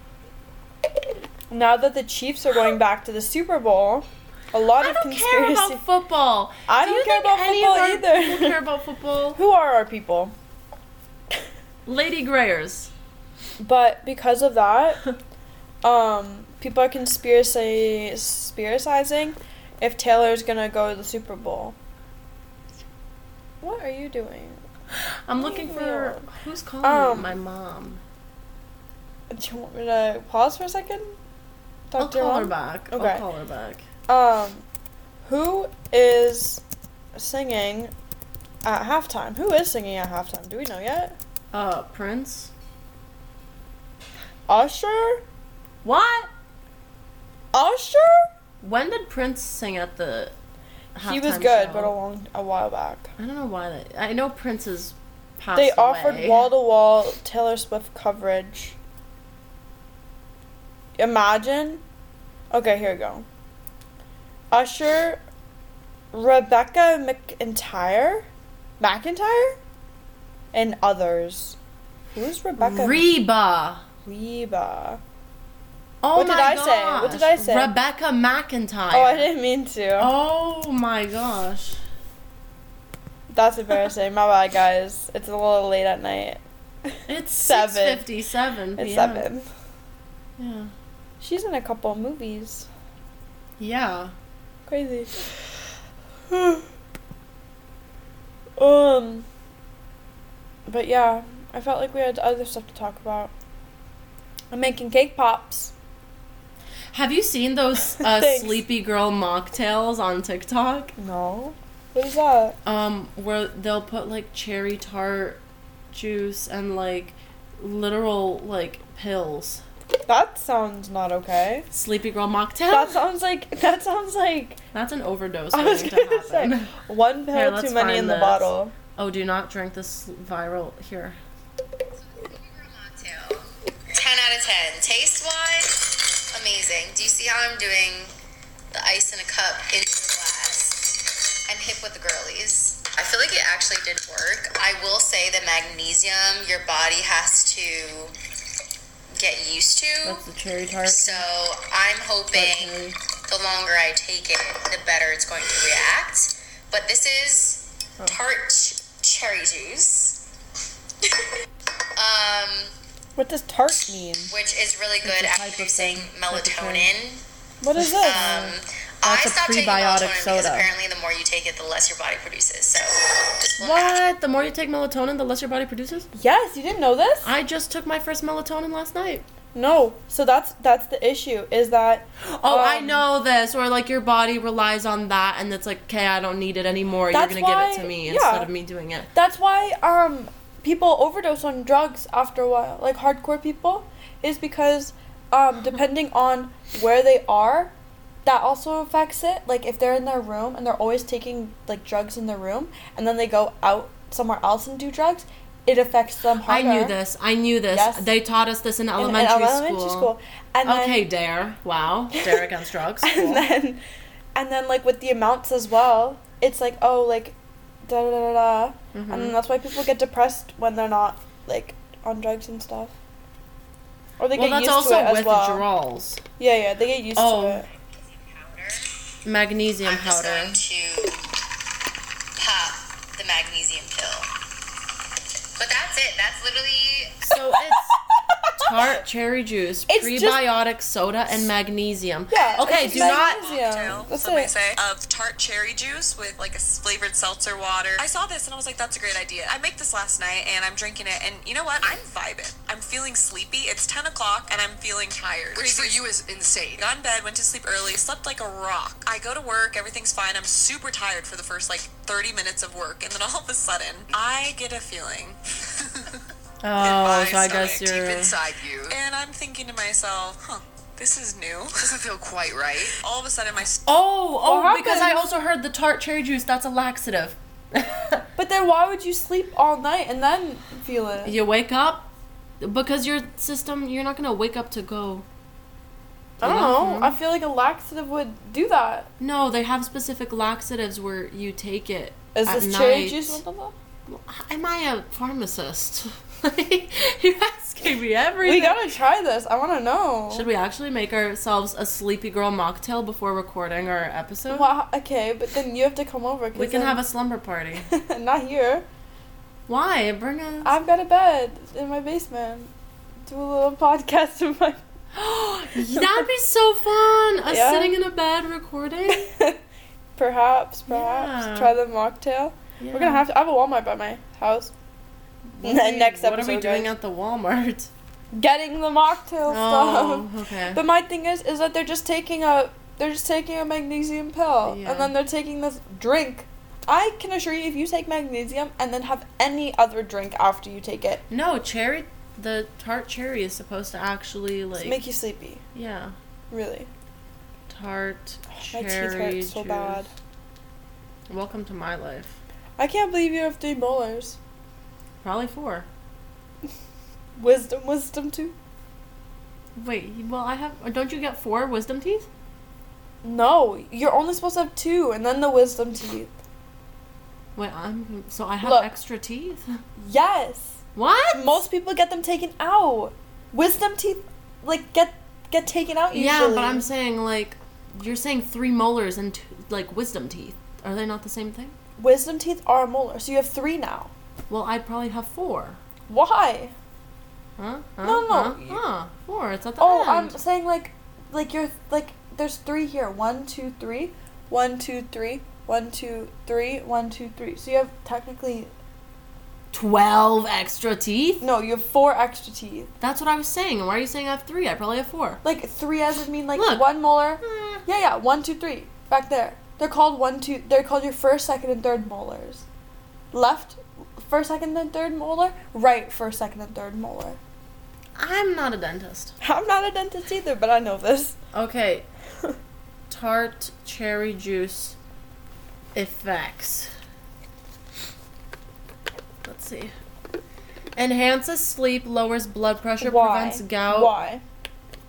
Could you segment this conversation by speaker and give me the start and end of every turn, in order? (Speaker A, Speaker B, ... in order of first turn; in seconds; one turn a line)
Speaker A: 1.5-5.8
Speaker B: 4.8-9.4
Speaker A: 6.7-8.6
Speaker A: 9.3-10.3
Speaker B: 11.8-12.9
Speaker A: 13.6-15.0
Speaker A: 15.8-21.8
Speaker A: 23.6-24.6
Speaker B: 24.9-28.0
Speaker A: 25.4-26.3
Speaker A: 26.8-27.3
Speaker A: 29.3-31.1
Speaker A: 31.9-33.2
Speaker B: 32.0-33.8
Speaker A: 34.1-34.6
Speaker A: 35.2-36.6
Speaker A: 37.1-37.9
Speaker A: 38.6-41.1
Speaker B: 41.5-42.5
Speaker A: 44.5-45.2
Speaker B: 45.8-46.3
Speaker A: 47.5-48.3
Speaker B: 48.6-50.3
Speaker B: 50.9-51.9
Speaker A: 51.0-53.1
Speaker B: 53.2-56.5
Speaker A: 55.5-58.8
Speaker A: 61.0-61.8
Speaker A: 62.5-63.2
Speaker A: 64.5-65.2
Speaker A: 66.1-68.3
Speaker A: 68.8-69.6
Speaker A: 70.5-71.6
Speaker A: 72.1-73.1
Speaker B: 72.6-73.8
Speaker A: 74.0-75.0
Speaker B: 76.0-79.3
Speaker A: 76.1-77.7
Speaker A: 78.9-80.1
Speaker B: 80.0-81.8
Speaker A: 83.3-88.0
Speaker B: 87.1-89.3
Speaker A: 88.8-89.5
Speaker B: 90.4-90.7
Speaker A: 91.2-92.7
Speaker B: 93.6-94.1
Speaker A: 94.7-95.3
Speaker A: 96.3-96.7
Speaker A: 98.6-99.3
Speaker A: 100.7-103.3
Speaker A: 104.5-105.7
Speaker B: 106.9-110.9
Speaker A: 107.9-108.6
Speaker A: 111.0-112.6
Speaker B: 112.6-115.4
Speaker B: 115.9-119.6
Speaker A: 120.1-121.7
Speaker B: 121.7-123.0
Speaker A: 122.7-124.6
Speaker B: 124.7-126.8
Speaker A: 125.5-128.7
Speaker B: 127.3-131.2
Speaker C: 132.0-138.1
Speaker C: 138.7-148.1
Speaker C: 149.2-150.2
Speaker B: 150.0-151.2
Speaker C: 150.8-160.2
Speaker B: 152.3-153.0
Speaker C: 161.9-162.7
Speaker A: 163.2-164.3
Speaker C: 164.3-167.2
Speaker B: 165.0-166.9
Speaker A: 167.6-168.4
Speaker C: 168.0-174.0
Speaker B: 168.1-168.5
Speaker B: 169.0-170.7
Speaker B: 173.6-176.1
Speaker A: 176.1-177.3
Speaker B: 177.2-179.2
Speaker A: 179.5-183.1
Speaker B: 182.2-189.1
Speaker A: 187.1-188.5
Speaker A: 189.1-197.7
Speaker A: 198.2-206.9
Speaker B: 206.4-210.1
Speaker A: 207.7-208.1
Speaker A: 209.0-211.1
Speaker B: 210.6-213.4
Speaker A: 212.1-212.5
Speaker A: 213.0-213.8
Speaker A: 214.3-222.9
Speaker B: 218.9-219.4
Speaker A: 224.2-225.6
Speaker B: 224.3-226.2
Speaker A: 226.4-227.7
Speaker B: 227.2-227.6
Speaker C: 228.3-229.0
Speaker B: 229.2-230.6
Speaker C: 229.8-231.2
Speaker C: 232.4-234.3
Speaker C: 235.6-237.3
Speaker B: 237.2-237.9
Speaker B: 238.6-243.4
Speaker A: 239.9-240.4
Speaker A: 242.3-244.5
Speaker D: 242.7-256.1
Speaker E: 255.5-256.9
Speaker D: 256.8-265.4
Speaker B: 266.6-268.4
Speaker E: 266.8-269.0
Speaker D: 268.9-271.9
Speaker E: 271.8-273.0
Speaker D: 272.9-273.9
Speaker B: 273.8-278.2
Speaker A: 274.4-275.3
Speaker A: 278.4-281.4
Speaker B: 281.2-285.2
Speaker A: 286.4-289.1
Speaker B: 286.4-287.1
Speaker B: 289.2-293.4
Speaker A: 292.3-293.7
Speaker B: 294.1-298.8
Speaker A: 298.4-300.5
Speaker B: 300.3-304.7
Speaker A: 304.5-307.0
Speaker B: 306.5-307.9
Speaker A: 307.9-308.9
Speaker B: 309.7-310.7
Speaker A: 310.6-312.7
Speaker A: 313.2-314.8
Speaker B: 315.1-319.3
Speaker A: 315.8-316.3
Speaker A: 317.5-318.0
Speaker A: 319.1-319.6
Speaker A: 320.1-324.7
Speaker B: 320.9-321.8
Speaker B: 322.8-323.2
Speaker B: 325.5-327.9
Speaker A: 325.6-326.9
Speaker A: 328.3-341.2
Speaker B: 329.5-330.8
Speaker B: 334.6-335.1
Speaker B: 341.3-345.0
Speaker A: 344.8-345.6
Speaker B: 345.7-346.1
Speaker A: 346.5-346.9
Speaker B: 347.7-350.1
Speaker A: 348.5-350.1
Speaker B: 351.3-352.4
Speaker A: 352.8-354.4
Speaker B: 355.2-355.9
Speaker A: 357.4-358.6
Speaker B: 359.8-362.3
Speaker A: 363.2-366.3
Speaker B: 367.6-369.8
Speaker A: 368.6-368.9
Speaker A: 370.0-376.8
Speaker B: 370.9-371.5
Speaker B: 376.1-381.7
Speaker A: 382.0-384.1
Speaker B: 384.5-385.8
Speaker A: 386.1-386.7
Speaker B: 387.6-390.4
Speaker A: 388.0-388.8
Speaker A: 389.8-398.7
Speaker B: 399.7-401.4
Speaker A: 401.4-402.9
Speaker B: 403.0-405.4
Speaker A: 405.4-412.6
Speaker B: 406.6-407.8
Speaker A: 413.3-417.4
Speaker B: 418.1-419.3
Speaker A: 419.4-421.4
Speaker B: 421.5-422.1
Speaker B: 423.1-424.9
Speaker B: 425.9-426.9
Speaker B: 429.4-429.9
Speaker B: 430.9-434.1
Speaker A: 433.0-434.4